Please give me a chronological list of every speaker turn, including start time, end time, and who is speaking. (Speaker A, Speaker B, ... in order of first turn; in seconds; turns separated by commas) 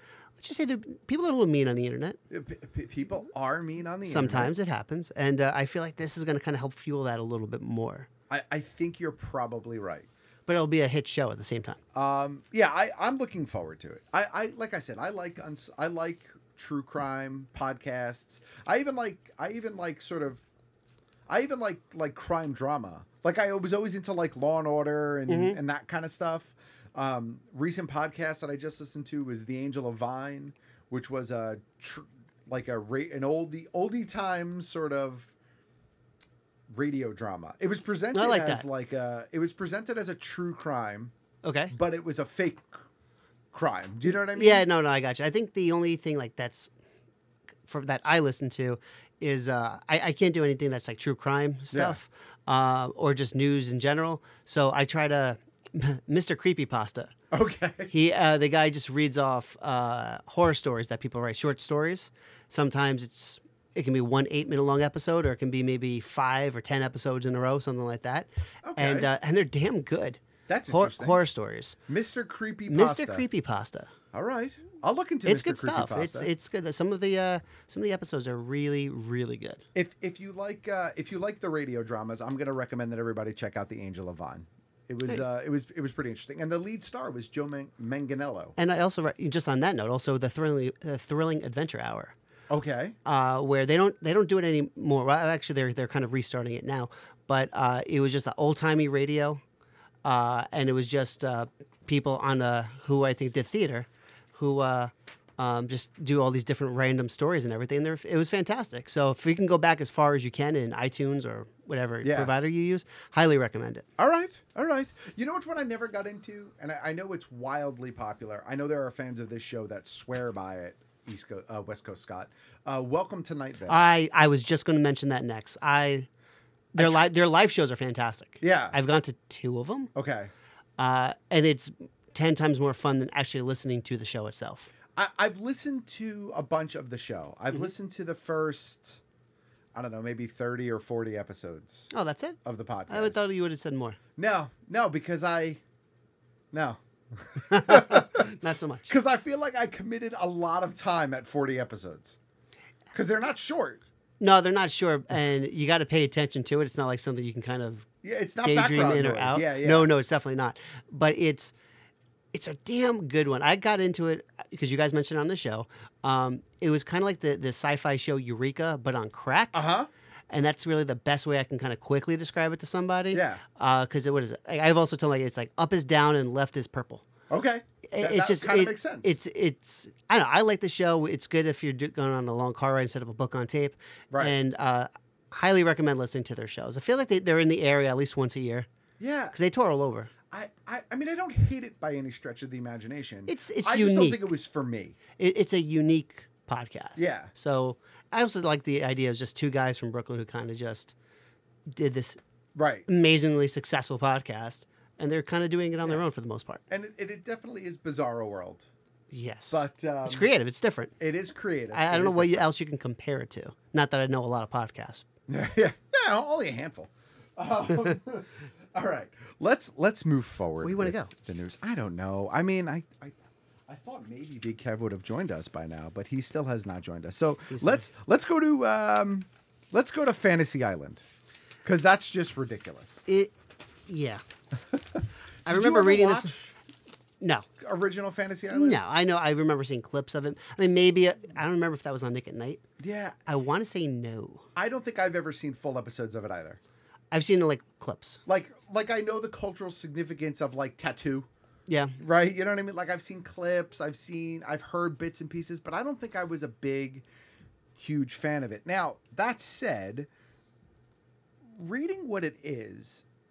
Speaker A: 0.4-2.2, Speaker B: 2.3-4.5, Speaker A: 4.0-8.1, Speaker B: 8.3-10.1, Speaker A: 10.5-11.8, Speaker B: 11.9-20.5, Speaker B: 21.3-35.3, Speaker A: 25.3-25.6, Speaker B: 36.7-41.1, Speaker A: 38.1-38.6, Speaker A: 41.4-41.7, Speaker B: 41.7-42.8, Speaker B: 43.5-44.7, Speaker A: 44.1-46.7, Speaker A: 47.6-57.1, Speaker B: 51.7-52.0, Speaker B: 57.3-57.9, Speaker A: 57.9-71.8, Speaker B: 68.6-69.1, Speaker B: 70.5-71.2, Speaker B: 71.9-73.2, Speaker A: 72.7-73.9, Speaker B: 74.1-76.3, Speaker A: 75.2-79.6, Speaker B: 79.7-88.5, Speaker A: 88.6-92.1, Speaker B: 92.5-93.0, Speaker A: 93.0-99.4, Speaker A: 100.0-113.8, Speaker B: 112.0-112.3, Speaker B: 114.0-123.8, Speaker A: 123.7-126.1, Speaker A: 126.7-129.9, Speaker B: 126.8-127.1, Speaker B: 128.4-128.8, Speaker B: 129.9-130.3, Speaker A: 130.8-134.7, Speaker B: 134.9-139.0, Speaker B: 139.7-141.9, Speaker A: 141.9-142.4, Speaker B: 142.4-143.2, Speaker A: 142.9-144.0, Speaker B: 144.2-145.6, Speaker B: 146.5-148.3, Speaker A: 147.5-148.9, Speaker B: 148.9-152.2, Speaker B: 152.9-153.8, Speaker A: 154.2-157.9, Speaker B: 158.0-159.9, Speaker A: 158.4-161.5, Speaker A: 162.3-169.6, Speaker B: 169.5-169.9, Speaker A: 170.3-177.0, Speaker B: 173.1-173.4, Speaker B: 177.3-179.2, Speaker A: 177.9-188.7, Speaker B: 189.0-189.3, Speaker A: 189.3-190.1, Speaker B: 190.3-195.0, Speaker A: 193.3-194.3, Speaker A: 195.2-200.9, Speaker B: 197.0-197.3, Speaker A: 201.7-202.2, Speaker B: 202.5-202.9, Speaker A: 202.9-206.6, Speaker B: 206.7-208.7, Speaker A: 209.1-210.9, Speaker B: 209.5-210.3, Speaker B: 211.0-212.5, Speaker A: 211.7-215.0, Speaker B: 215.3-223.2, Speaker A: 220.6-221.1, Speaker B: 223.7-231.1, Speaker A: 227.5-227.9, Speaker B: 231.6-233.0, Speaker A: 233.1-233.3, Speaker A: 233.9-234.2, Speaker B: 234.7-236.6, Speaker A: 235.4-236.3, Speaker A: 237.2-237.4, Speaker B: 237.6-238.8, Speaker A: 238.5-242.6, Speaker B: 242.8-243.2, Speaker A: 243.3-244.4, Speaker B: 244.6-246.6, Speaker A: 247.1-248.2, Speaker B: 248.2-251.3, Speaker A: 251.7-251.9, Speaker B: 252.0-257.0, Speaker B: 257.8-260.1, Speaker B: 261.4-263.0